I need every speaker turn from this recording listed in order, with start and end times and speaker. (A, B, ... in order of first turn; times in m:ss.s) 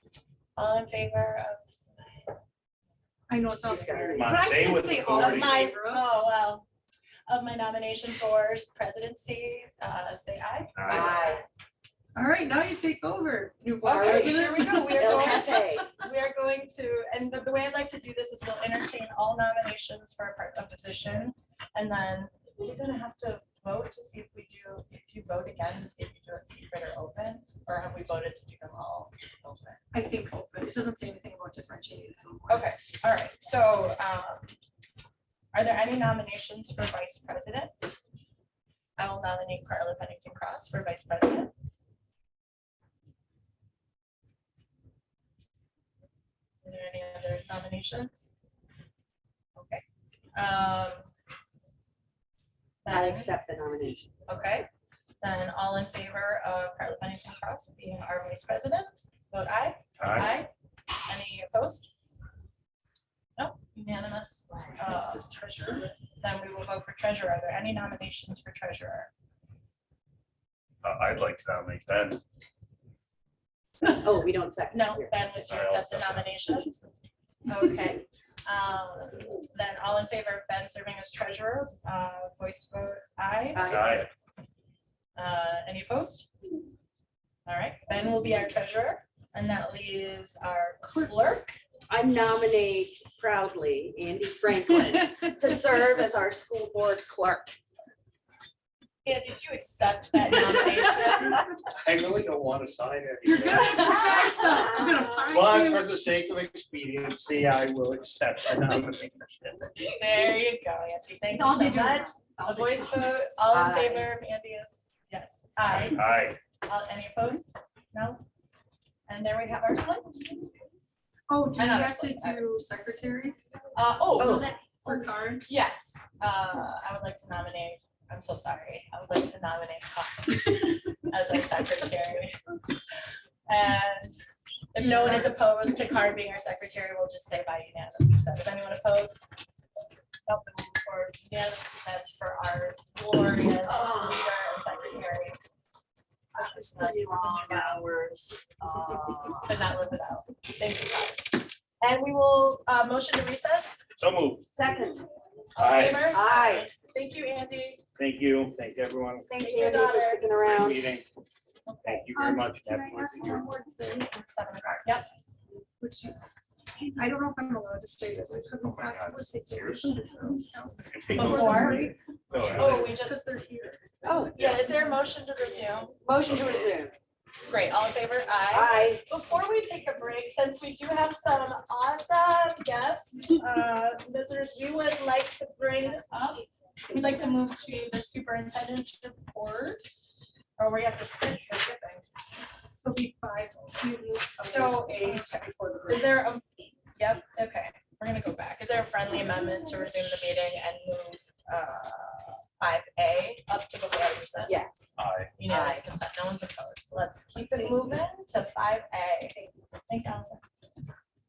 0:00.6-0:01.6 A
0:03.3-0:06.1 B
0:03.6-0:04.4 C
0:04.2-0:05.6 D
0:05.1-0:06.7 A
0:07.3-0:11.4 A
0:10.8-0:11.1 E
0:10.8-0:11.4 C
0:12.2-0:15.9 B
0:13.8-0:15.9 C
0:13.9-0:29.8 A
0:29.9-0:32.7 B
0:32.5-0:34.5 A
0:35.5-0:37.9 A
0:39.0-0:41.5 A
0:46.6-0:48.2 A
0:49.6-0:49.8 A
0:50.4-0:51.1 A
0:52.8-0:53.3 A
0:52.9-0:54.1 C
0:54.3-0:54.7 A
0:55.2-1:00.5 A
1:00.0-1:00.3 E
1:01.1-1:01.9 A
1:03.4-1:05.3 A
1:04.8-1:05.9 B
1:06.0-1:09.1 A
1:10.8-1:12.2 E
1:11.6-1:12.2 D
1:13.8-1:15.2 C
1:14.7-1:24.0 A
1:15.5-1:16.2 E
1:15.8-1:16.2 D
1:23.5-1:24.1 C
1:23.7-1:24.0 E
1:25.2-1:26.3 A
1:27.5-1:31.6 A
1:31.9-1:37.6 C
1:39.0-1:41.4 A
1:41.8-1:44.0 D
1:43.2-1:45.9 B
1:43.8-1:44.2 A
1:44.4-1:45.3 C
1:45.3-1:49.6 D
1:50.0-1:58.2 A
1:51.3-1:52.6 B
1:52.4-1:52.8 C
1:53.5-1:54.1 C
1:55.9-1:56.4 E
1:56.0-1:56.3 D
1:59.1-2:00.7 A
2:01.3-2:03.4 B
2:01.5-2:02.5 A
2:03.8-2:12.4 A
2:04.2-2:04.5 C
2:04.2-2:05.5 B
2:13.5-2:14.2 A
2:14.7-2:19.5 A
2:14.8-2:15.4 B
2:20.3-2:25.4 A
2:23.6-2:24.3 C
2:26.4-2:29.6 C
2:26.4-2:27.8 A
2:29.4-2:33.8 A
2:34.0-2:34.5 D
2:34.5-2:35.1 C
2:35.6-2:37.8 A
2:35.6-2:36.1 D
2:35.9-2:36.7 C
2:38.0-2:39.3 D
2:39.3-2:40.9 C
2:39.3-2:40.3 A
2:40.4-2:41.1 D
2:41.7-2:42.1 A
2:41.8-2:43.5 D
2:42.1-2:44.1 B
2:44.1-2:45.1 A
2:45.8-2:46.2 B
2:46.9-2:54.6 B
2:48.2-2:52.9 E
2:51.1-2:52.9 D
2:51.1-2:51.8 A
2:52.5-2:53.2 A
2:54.0-2:54.4 C
2:54.3-2:56.1 A
2:54.4-2:54.7 E
2:56.0-2:57.0 C
2:56.2-2:56.7 E
2:57.5-3:09.8 A
2:58.5-2:59.1 C
3:10.6-3:12.1 A
3:12.8-3:16.2 B
3:14.5-3:15.3 A
3:15.9-3:16.4 A
3:17.0-3:24.7 A
3:24.4-3:24.9 C
3:25.0-3:25.3 E
3:25.4-3:30.4 A
3:25.5-3:25.9 C